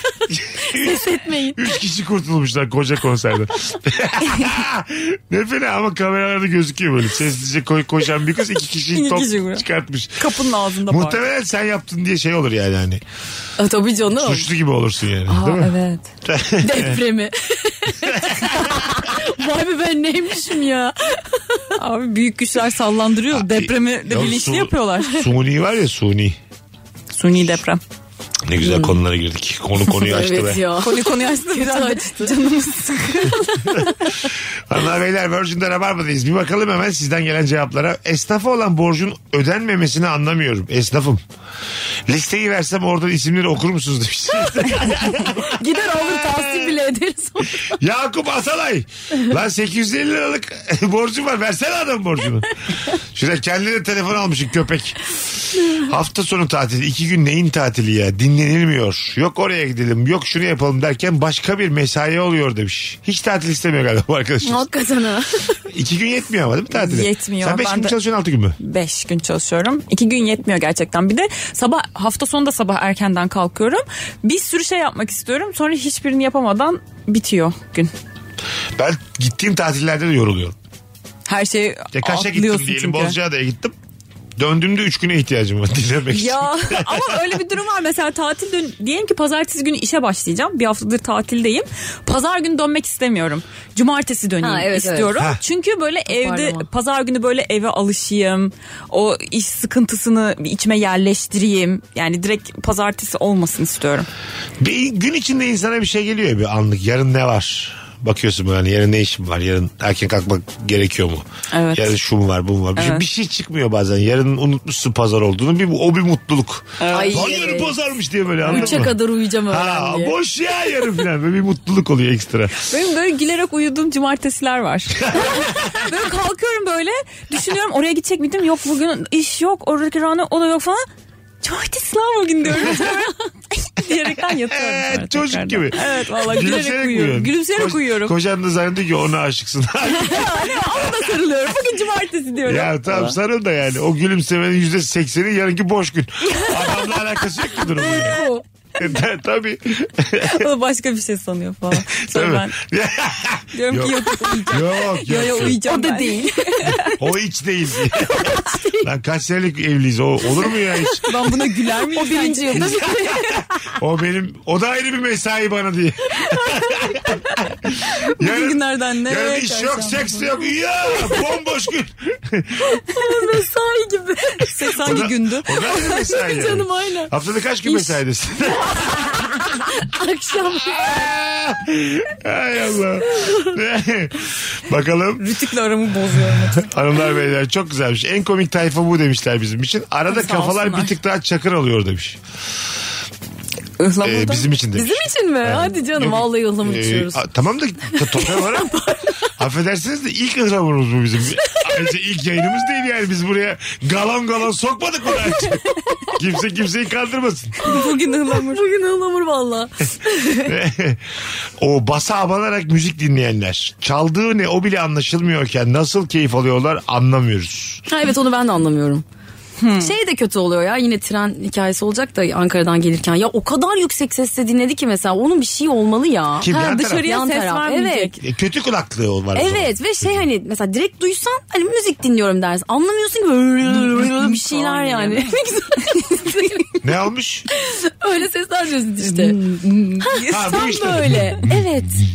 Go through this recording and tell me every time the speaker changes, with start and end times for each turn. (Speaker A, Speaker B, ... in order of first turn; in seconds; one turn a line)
Speaker A: 0.3-10.3
Speaker B: 0.7-1.7
Speaker C: 8.9-9.6
Speaker C: 10.2-11.2
Speaker A: 10.8-13.0
Speaker B: 13.6-14.5
Speaker A: 14.2-15.7
Speaker C: 15.3-16.0
Speaker A: 16.2-17.0
Speaker B: 16.6-21.6
Speaker A: 18.1-18.8
Speaker C: 21.8-25.2
Speaker A: 23.3-26.4
Speaker C: 27.1-27.8
Speaker A: 28.4-30.6
Speaker B: 28.6-29.0
Speaker B: 29.9-32.3
Speaker C: 30.8-33.5
Speaker B: 33.5-34.1
Speaker A: 34.7-41.2
Speaker A: 42.1-46.8
Speaker B: 45.3-47.7
Speaker A: 47.6-52.5
Speaker A: 53.1-55.0
Speaker B: 55.5-55.8
Speaker A: 55.8-64.7
Speaker B: 64.4-65.6
Speaker A: 65.7-68.5
Speaker C: 66.7-68.0
Speaker C: 68.6-77.9
Speaker A: 78.8-80.5
Speaker C: 81.3-83.2
Speaker A: 81.9-83.7
Speaker A: 84.4-87.1
Speaker C: 86.1-104.1
Speaker B: 94.4-95.2
Speaker B: 96.1-96.7
Speaker A: 104.6-122.5
Speaker C: 111.5-111.8
Speaker C: 112.8-113.0
Speaker C: 116.8-117.3
Speaker B: 116.9-117.8
Speaker B: 118.4-120.1
Speaker C: 118.4-118.8
Speaker C: 122.7-130.8
Speaker A: 125.0-125.7
Speaker C: 131.4-138.1
Speaker B: 132.6-133.0
Speaker A: 134.2-140.6
Speaker C: 140.0-143.2
Speaker B: 140.2-141.7
Speaker A: 142.4-148.2
Speaker B: 147.9-148.4
Speaker A: 148.8-150.4
Speaker C: 150.3-152.6
Speaker A: 151.7-155.6
Speaker C: 153.5-156.9
Speaker B: 155.6-156.9
Speaker A: 157.0-161.0
Speaker B: 158.0-158.9
Speaker B: 160.4-160.9
Speaker C: 161.0-162.9
Speaker B: 161.6-163.7
Speaker A: 162.6-172.8
Speaker B: 166.2-167.2
Speaker C: 168.2-170.4
Speaker B: 172.6-174.6
Speaker C: 174.5-175.9
Speaker A: 174.7-179.3
Speaker B: 175.7-177.1
Speaker B: 178.7-181.1
Speaker A: 180.6-185.2
Speaker C: 185.2-186.7
Speaker A: 186.5-192.2
Speaker C: 190.1-190.9
Speaker C: 193.8-194.5
Speaker A: 194.0-198.7
Speaker B: 194.8-197.2
Speaker B: 197.9-199.2
Speaker A: 199.4-207.6
Speaker C: 207.6-208.6
Speaker B: 207.7-210.5
Speaker A: 210.4-211.0
Speaker A: 211.6-217.8
Speaker B: 217.9-219.0
Speaker C: 219.6-219.9
Speaker B: 219.8-228.1
Speaker A: 226.4-227.1
Speaker C: 226.5-228.2
Speaker A: 228.2-230.2
Speaker B: 229.3-236.8
Speaker C: 233.7-235.3
Speaker A: 236.8-237.5
Speaker B: 237.5-239.4
Speaker C: 239.0-241.6
Speaker B: 240.0-241.9
Speaker A: 240.3-241.6